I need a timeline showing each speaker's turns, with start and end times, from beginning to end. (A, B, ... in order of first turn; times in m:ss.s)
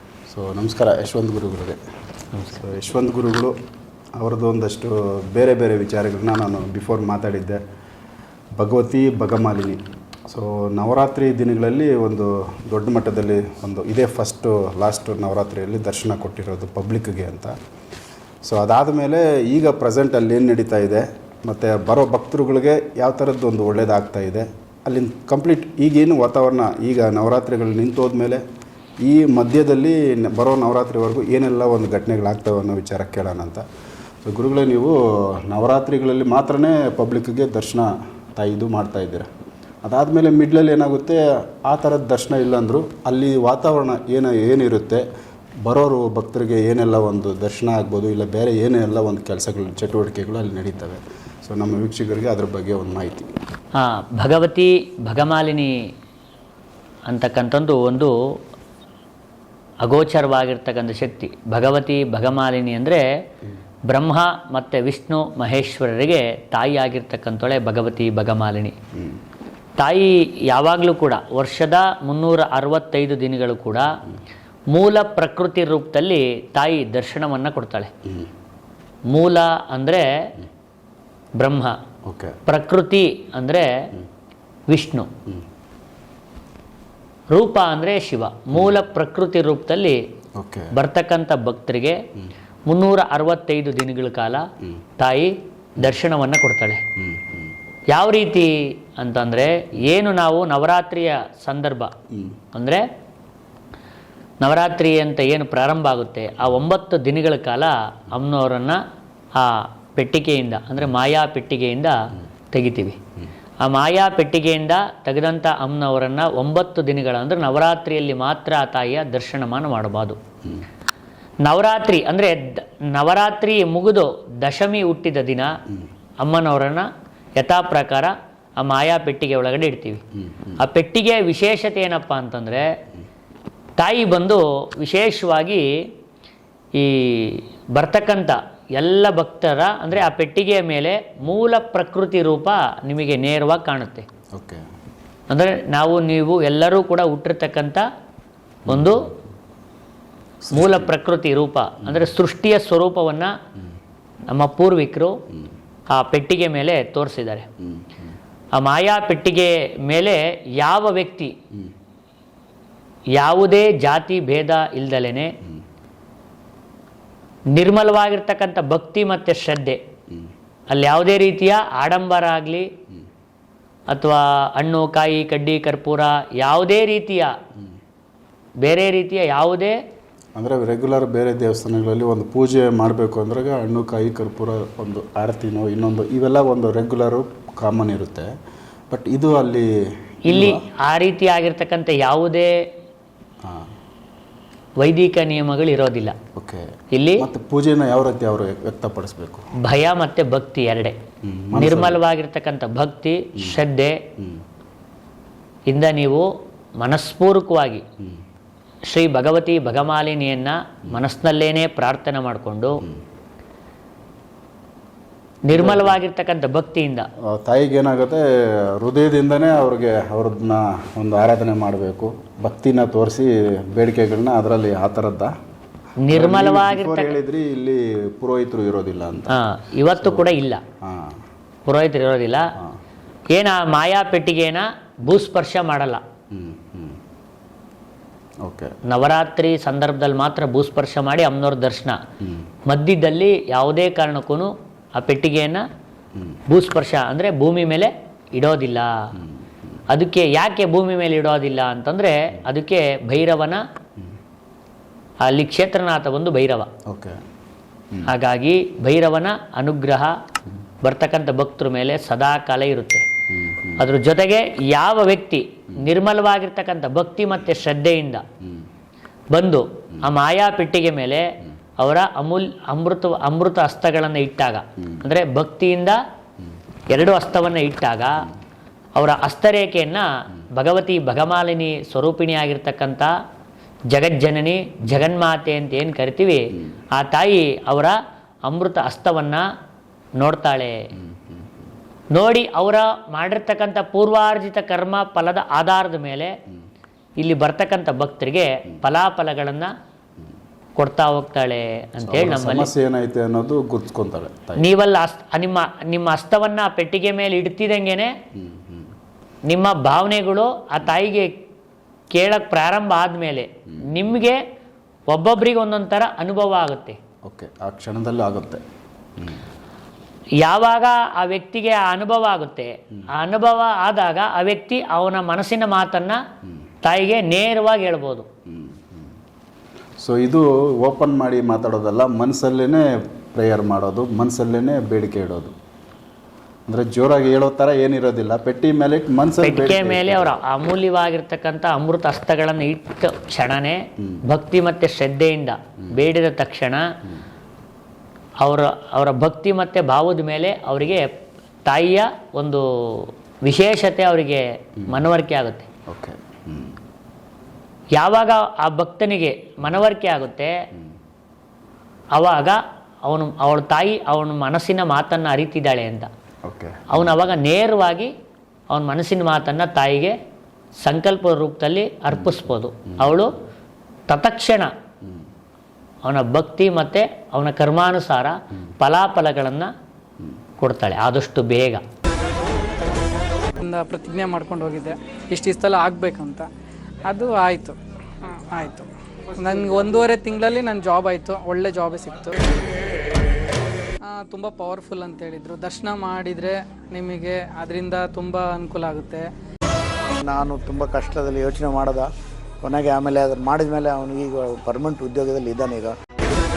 0:00.3-0:01.8 A
0:02.4-0:03.5 A
0:04.2-0:07.6 A
0:08.6-0:17.5 A
0:18.4-0:28.4 A
0:29.0-0:33.6 A
0:34.2-0:39.3 A
0:39.8-0:45.0 A
0:45.6-0:53.3 A
0:53.8-0:55.7 B
0:57.1-0:58.1 B
0:59.8-1:03.0 B
1:03.9-1:08.7 B
1:09.8-1:13.9 B
1:14.7-1:17.9 B
1:18.0-1:18.3 A
1:19.1-1:20.0 B
1:21.4-1:21.7 B
1:22.0-1:22.4 A
1:22.4-1:23.7 B
1:24.7-1:25.1 B
1:27.3-1:30.0 B
1:28.5-1:28.8 A
1:30.4-1:30.7 A
1:30.7-1:32.0 B
1:32.7-1:34.4 B
1:35.0-1:36.8 B
1:37.0-1:37.5 A
1:37.9-1:41.9 B
1:42.1-1:42.4 A
1:42.5-1:42.8 B
1:44.4-1:48.8 B
1:49.4-1:52.0 B
1:52.5-1:53.0 B
1:53.6-2:00.2 B
2:00.4-2:00.7 A
2:01.4-2:05.5 B
2:06.2-2:10.0 B
2:10.2-2:10.6 A
2:10.6-2:12.6 B
2:13.8-2:15.7 B
2:16.8-2:24.0 B
2:24.3-2:24.6 A
2:25.3-2:27.8 B
2:28.7-2:29.1 B
2:28.7-2:29.2 A
2:30.4-2:30.9 A
2:30.5-2:33.3 B
2:31.8-2:32.1 A
2:34.3-2:35.2 B
2:35.9-2:37.5 B
2:37.6-2:38.1 A
2:38.6-2:41.3 B
2:43.2-2:45.3 B
2:47.5-2:49.8 B
2:50.7-2:52.7 B
2:53.9-2:57.3 B
2:58.6-2:59.8 B
3:00.4-3:08.3 A
3:08.9-3:09.7 A
3:10.3-3:10.6 A
3:10.3-3:12.5 B
3:14.8-3:16.1 B
3:16.3-3:16.7 A
3:16.9-3:17.2 B
3:17.2-3:19.4 A
3:19.6-3:21.0 B
3:21.2-3:22.0 A
3:21.5-3:24.0 B
3:23.4-3:23.6 A
3:24.2-3:24.4 A
3:25.7-3:26.2 B
3:26.8-3:27.8 B
3:28.9-3:32.8 B
3:35.5-3:37.1 B
3:35.5-3:36.0 A
3:37.2-3:38.2 A
3:38.8-3:45.3 A
3:46.0-3:47.2 B
3:46.1-3:51.2 A
3:49.3-3:50.6 B
3:51.6-3:52.5 B
3:53.3-3:56.0 B
3:56.3-3:57.0 A
3:58.4-3:58.7 A
3:58.8-4:02.0 B
4:02.2-4:02.5 A
4:02.7-4:05.6 B
4:06.5-4:08.9 B
4:09.1-4:09.7 A
4:09.9-4:13.6 B
4:15.2-4:16.7 B
4:16.9-4:17.2 A
4:18.1-4:20.1 B
4:20.8-4:23.0 B
4:23.3-4:23.9 A
4:23.8-4:28.2 B
4:28.4-4:28.7 A
4:29.3-4:31.3 B
4:31.8-4:36.0 B
4:36.9-4:38.3 B
4:39.0-4:43.1 B
4:43.9-4:49.4 B
4:50.2-4:50.8 B
4:51.0-4:51.6 A
4:52.1-4:56.3 B
4:57.2-4:59.7 B
5:00.8-5:02.7 B
5:02.0-5:04.7 A
5:04.6-5:08.1 B
5:08.3-5:08.9 A
5:09.5-5:11.3 B
5:12.1-5:14.4 B
5:13.7-5:14.0 A
5:15.1-5:17.0 B
5:17.2-5:18.6 A
5:19.2-5:19.4 A
5:20.4-5:26.2 B
5:26.8-5:28.2 B
5:28.5-5:29.0 A
5:30.0-5:35.5 A
5:36.7-5:40.4 A
5:39.4-5:46.8 B
5:48.4-5:51.1 B
5:51.6-5:55.7 B
5:55.9-5:56.8 A
5:58.0-6:00.5 B
6:02.1-6:06.1 B
6:06.4-6:07.3 A
6:06.9-6:08.1 B
6:08.7-6:10.1 B
6:10.8-6:13.3 B
6:12.1-6:13.3 A
6:14.1-6:14.7 B
6:16.0-6:19.7 B
6:20.6-6:21.8 B
6:23.6-6:26.5 C
6:27.1-6:32.4 C
6:34.1-6:39.2 C
6:40.2-6:42.1 D
6:42.6-6:46.0 D